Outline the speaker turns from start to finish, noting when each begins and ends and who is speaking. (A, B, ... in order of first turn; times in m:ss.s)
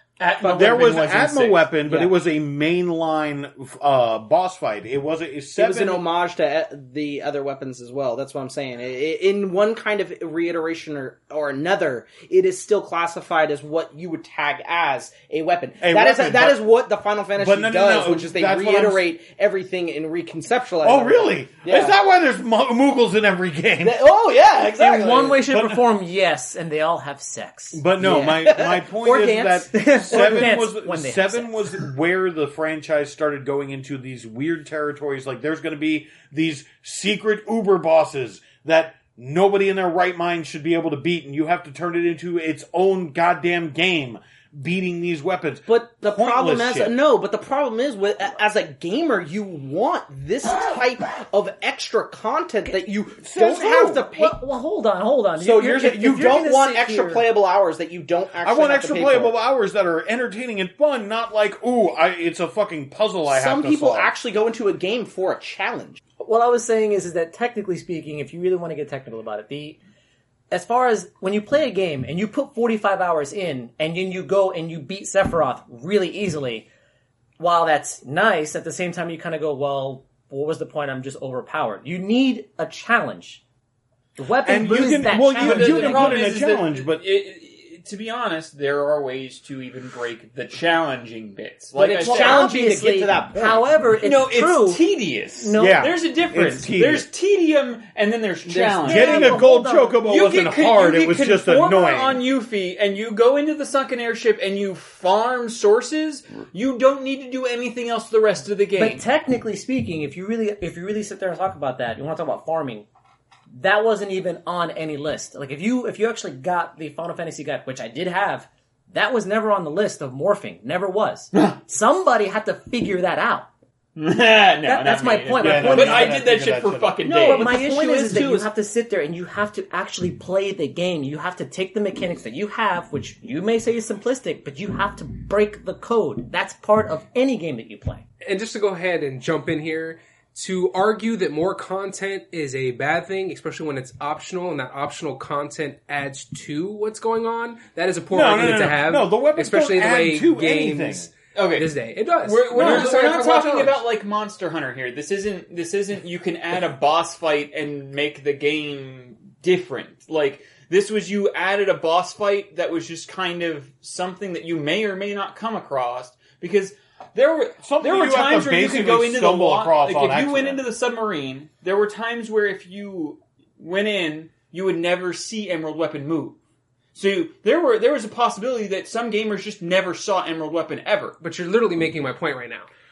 0:00.2-0:01.7 A
0:00.4-0:01.0 B
0:00.4-0:06.0 C
0:01.9-0:02.1 B
0:05.6-0:22.0 B
0:15.8-0:16.7 C
0:17.4-0:19.1 C
0:20.8-0:24.0 C
0:23.8-0:25.4 B
0:24.8-0:27.8 D
0:25.5-0:25.9 C
0:27.7-0:47.0 C
0:28.0-0:30.5 B
0:29.7-0:31.5 D
0:45.7-0:54.4 B
0:53.2-0:54.1 C
0:54.1-0:57.3 D
0:55.4-0:59.3 B
0:58.4-1:04.1 C
1:03.3-1:06.0 B
1:06.2-1:09.8 D
1:10.5-1:16.7 D
1:17.4-1:23.4 D
1:24.2-1:26.3 D
1:24.4-1:27.0 C
1:25.3-1:32.5 A
1:31.8-1:33.6 B
1:32.0-1:34.8 D
1:34.0-1:39.3 A
1:35.4-1:35.9 D
1:35.6-1:37.1 C
1:38.5-1:39.3 B
1:38.8-1:42.2 C
1:38.9-1:40.0 D
1:40.1-1:49.0 A
1:48.8-1:52.9 D
1:53.5-2:03.5 D
2:04.0-2:07.6 A
2:04.6-2:06.2 D
2:05.4-2:07.0 C
2:07.0-2:08.5 B
2:07.2-2:18.0 D
2:18.2-2:33.8 E
2:28.1-2:31.1 C
2:31.4-2:31.7 A
2:32.2-2:56.4 A
2:32.6-2:33.1 B
2:47.6-2:50.6 C
2:56.9-3:01.2 A
3:01.2-3:02.7 E